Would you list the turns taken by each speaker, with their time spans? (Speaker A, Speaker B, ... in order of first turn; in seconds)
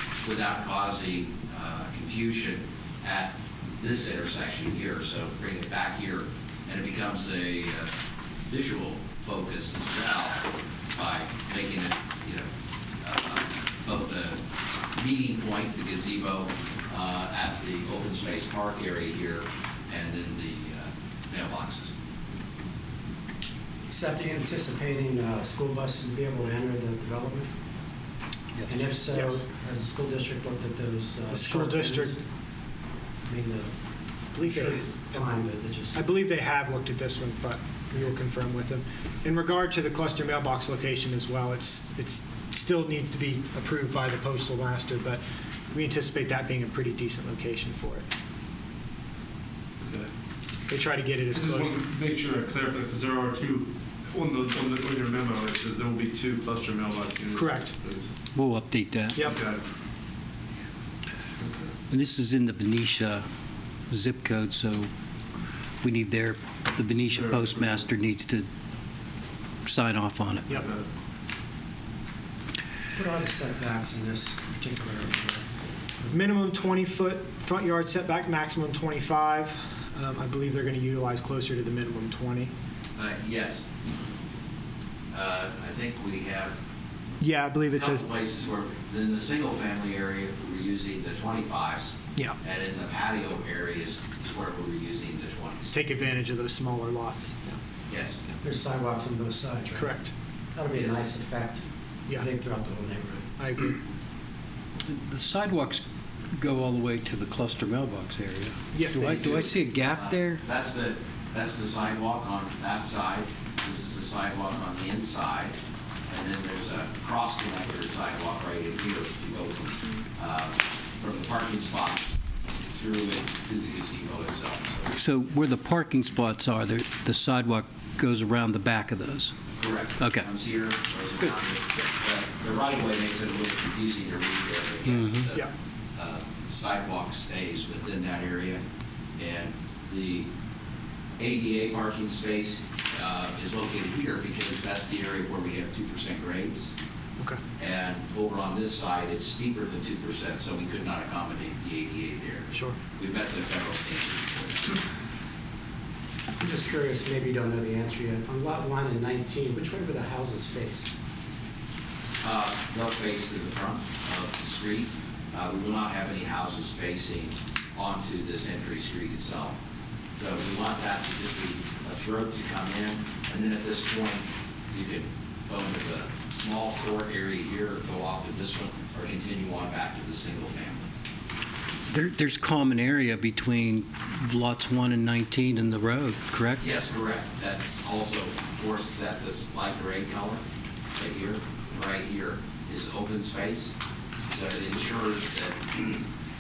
Speaker A: 0.2-7.9, 8.5-12.5, 13.0-14.4, 15.0-21.9, 83.0-83.7, 85.1-86.6, 87.7-95.7, 97.9-98.2, 100.7-101.0, 109.9-115.5, 116.1-122.2, 122.7-124.9, 129.6-135.4, 135.9-138.6, 139.2-140.3, 141.2-146.7, 147.6-154.8, 162.2-169.6, 170.1-180.9, 186.6-190.4, 191.0-193.8, 194.3-196.0
Speaker B: 23.9-27.5, 28.7-32.2, 33.2-33.7, 34.3-36.0, 72.9-75.5, 98.4-100.0, 100.5-103.3, 156.4-160.9
Speaker C: 31.3-32.1, 34.4-35.3, 36.0-48.0, 50.7-51.8, 57.3-57.8, 59.1-59.4, 76.1-82.5, 87.2-88.0, 95.7-97.6, 99.8-100.1, 103.4-103.8, 108.7-109.5
Speaker D: 49.8-50.1, 51.3-58.1, 59.3-59.6, 61.4-61.7, 67.1-67.9, 70.5-70.8
Speaker E: 58.3-59.3, 61.9-63.2, 63.9-64.9, 65.8-68.5, 69.7-70.5, 104.9-110.4, 125.0-129.4, 130.0-130.3, 134.9-135.2, 181.9-186.6